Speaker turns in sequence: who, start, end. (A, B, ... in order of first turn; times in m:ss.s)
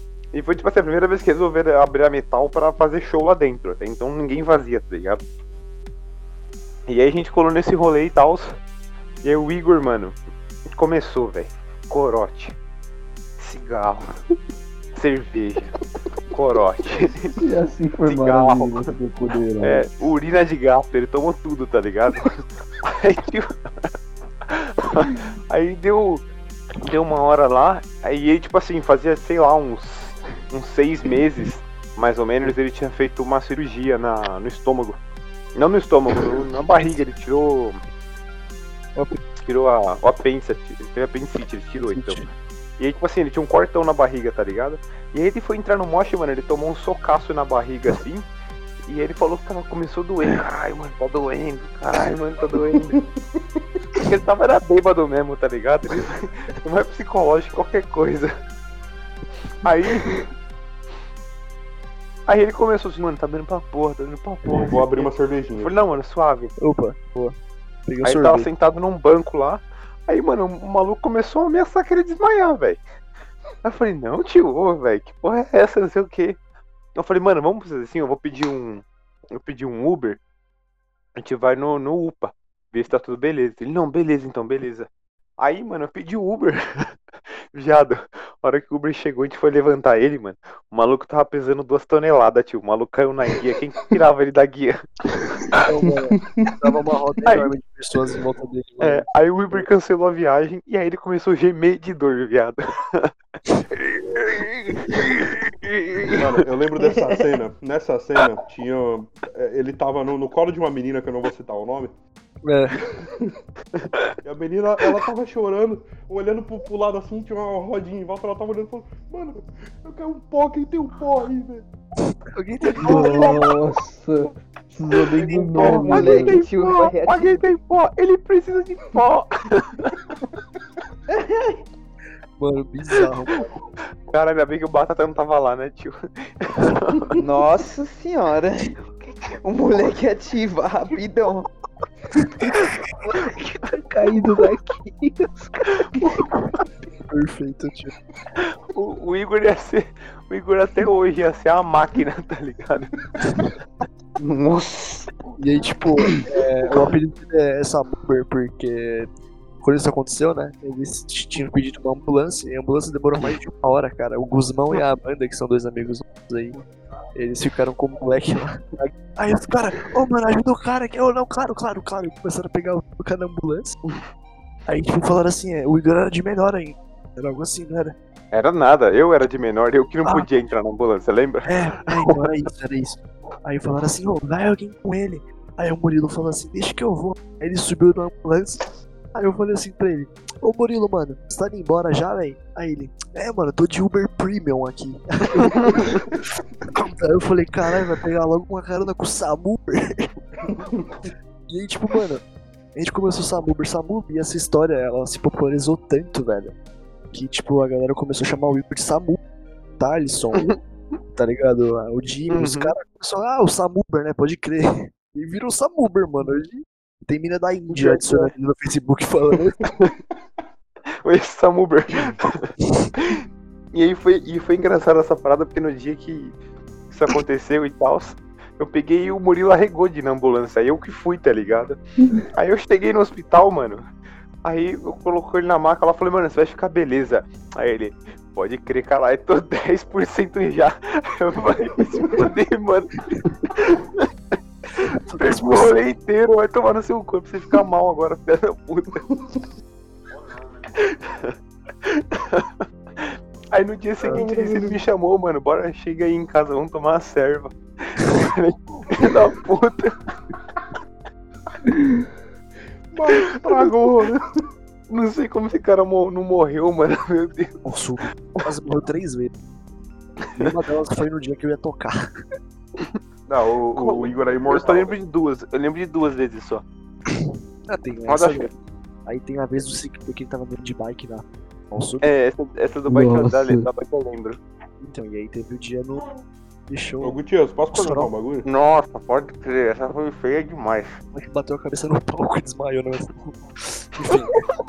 0:00.3-0:05.2 A
0:06.9-0:08.6 A
0:09.2-0:10.2 A
0:10.7-0:12.6 A
0:13.4-0:14.1 A
0:14.9-0:15.7 A
0:16.3-0:17.4 A
0:17.4-0:19.8 B
0:18.0-0:18.9 A
0:19.6-0:23.9 A
0:24.5-0:26.2 A
0:26.8-0:35.0 A
0:35.5-0:37.8 A
0:39.4-0:42.2 A
0:41.8-0:42.3 C
0:42.8-0:48.2 A
0:48.8-0:53.0 A
0:52.7-0:53.8 D
0:54.0-0:58.3 A
0:59.6-1:00.2 A
1:02.3-1:06.5 A
1:04.4-1:05.7 D
1:06.6-1:07.3 C
1:07.9-1:08.5 C
1:08.0-1:12.8 A
1:13.6-1:16.4 A
1:16.9-1:20.2 A
1:21.2-1:26.9 A
1:27.5-1:35.6 A
1:35.6-1:39.6 C
1:36.1-1:36.6 D
1:37.2-1:37.5 A
1:38.8-1:46.2 A
1:46.2-1:51.9 D
1:52.4-1:52.8 C
1:52.8-1:53.4 D
1:53.8-1:54.1 A
1:54.2-2:01.7 D
2:02.4-2:03.5 C
2:02.8-2:06.4 B
2:05.2-2:10.0 A
2:05.5-2:07.4 E
2:11.1-2:11.6 E
2:12.4-2:13.5 C
2:14.1-2:17.2 A
2:17.1-2:21.5 E
2:23.4-2:26.2 B
2:27.1-2:27.9 C
2:28.4-2:33.5 A
2:34.3-2:35.0 E
2:35.4-2:39.1 C
2:39.6-2:46.6 C
2:47.2-2:53.8 C
2:54.7-2:58.0 C
2:58.3-3:02.3 A
3:01.4-3:20.1 C
3:15.4-3:16.0 A
3:20.4-3:20.9 D
3:21.5-3:22.2 C
3:22.7-3:26.6 C
3:27.1-3:29.2 C
3:29.8-3:30.5 C
3:31.2-3:39.7 C
3:32.3-3:32.7 A
3:37.7-3:38.3 A
3:41.0-3:46.3 A
3:41.9-3:42.2 D
3:42.6-3:42.9 C
3:46.9-3:53.8 A
3:54.4-4:04.1 A
4:04.8-4:09.0 A
4:05.1-4:05.8 C
4:09.1-4:09.4 D
4:10.2-4:20.0 A
4:14.0-4:14.8 D
4:22.9-4:24.3 D
4:23.1-4:23.7 A
4:24.9-4:27.6 A
4:27.6-4:29.3 C
4:30.3-4:32.1 C
4:33.3-4:35.0 D
4:33.7-4:36.6 A
4:37.1-4:38.5 C
4:38.1-4:38.5 A
4:39.0-4:42.1 C
4:42.0-4:44.4 A
4:42.9-4:43.7 B
4:44.8-4:46.1 C
4:46.7-4:47.2 C
4:47.0-4:48.4 D
4:47.7-4:48.1 C
4:48.4-4:51.0 A
4:51.1-4:54.4 C